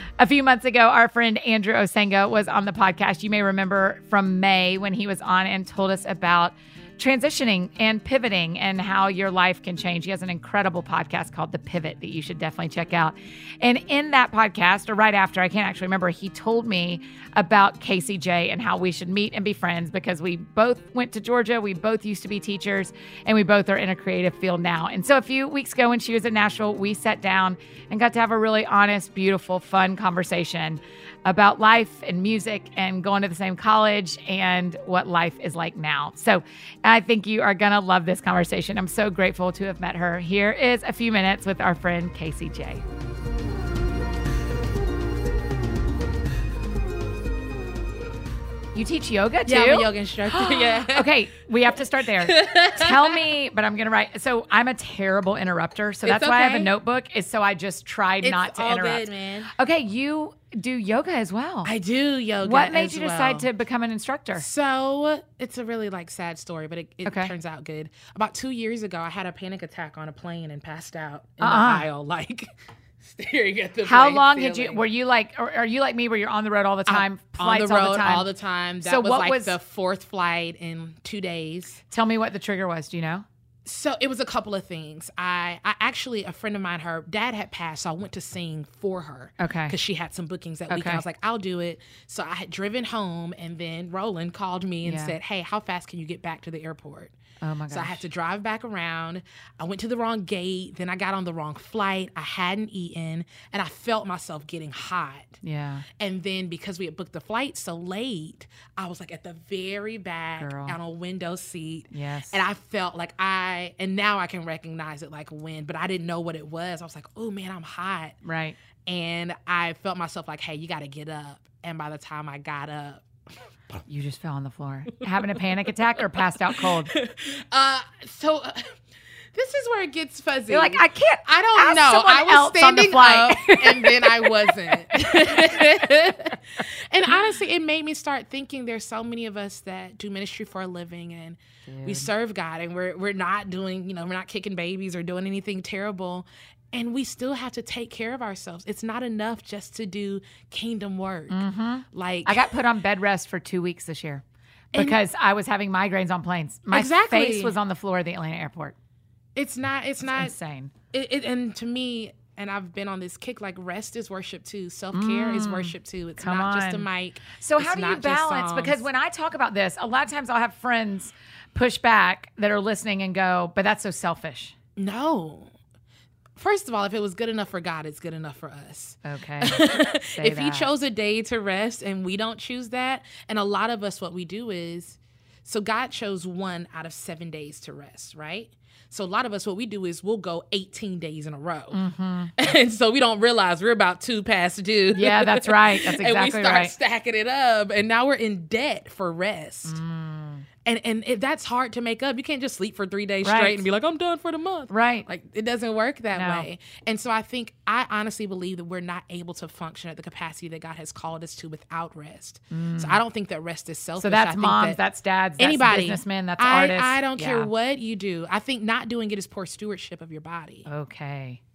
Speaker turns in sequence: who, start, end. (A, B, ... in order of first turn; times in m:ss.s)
0:00.2-0:42.8 A
0:48.7-1:01.7 A
0:49.4-0:51.1 B
0:52.2-0:53.2 B
0:56.0-0:56.7 B
0:58.2-0:59.5 B
1:01.6-1:03.5 B
1:02.4-1:04.4 A
1:04.4-1:14.8 B
1:07.0-1:07.3 A
1:11.4-1:11.9 A
1:13.8-1:18.3 A
1:16.9-1:21.8 B
1:18.8-1:19.5 A
1:21.9-1:23.2 A
1:23.6-1:37.2 B
1:29.4-1:29.8 A
1:30.7-1:31.0 A
1:34.8-1:35.2 A
1:37.4-1:38.0 A
1:37.7-1:45.4 B
1:45.4-1:45.8 A
1:46.0-1:58.2 B
1:50.4-1:50.8 A
1:51.9-1:52.4 A
1:58.2-1:58.6 A
1:58.8-2:03.0 B
2:03.9-2:06.9 A
2:06.5-2:08.8 B
2:09.3-2:32.4 B
2:10.5-2:15.2 A
2:21.7-2:22.1 A
2:31.3-2:38.8 A
2:34.7-2:35.0 B
2:36.7-2:37.6 B
2:39.4-2:40.3 B
2:40.0-2:40.7 A
2:40.9-2:48.8 B
2:44.9-2:54.5 A
2:54.8-2:55.5 B
2:56.4-3:11.8 B
2:59.0-3:00.7 A
3:11.7-3:12.3 A
3:12.4-3:19.8 B
3:14.9-3:16.7 A
3:19.6-3:20.5 A
3:20.6-3:34.8 B
3:23.2-3:23.6 A
3:24.7-3:25.1 A
3:26.1-3:26.5 A
3:32.5-3:33.0 A
3:34.0-3:37.5 A
3:35.4-3:40.6 B
3:40.6-3:41.4 A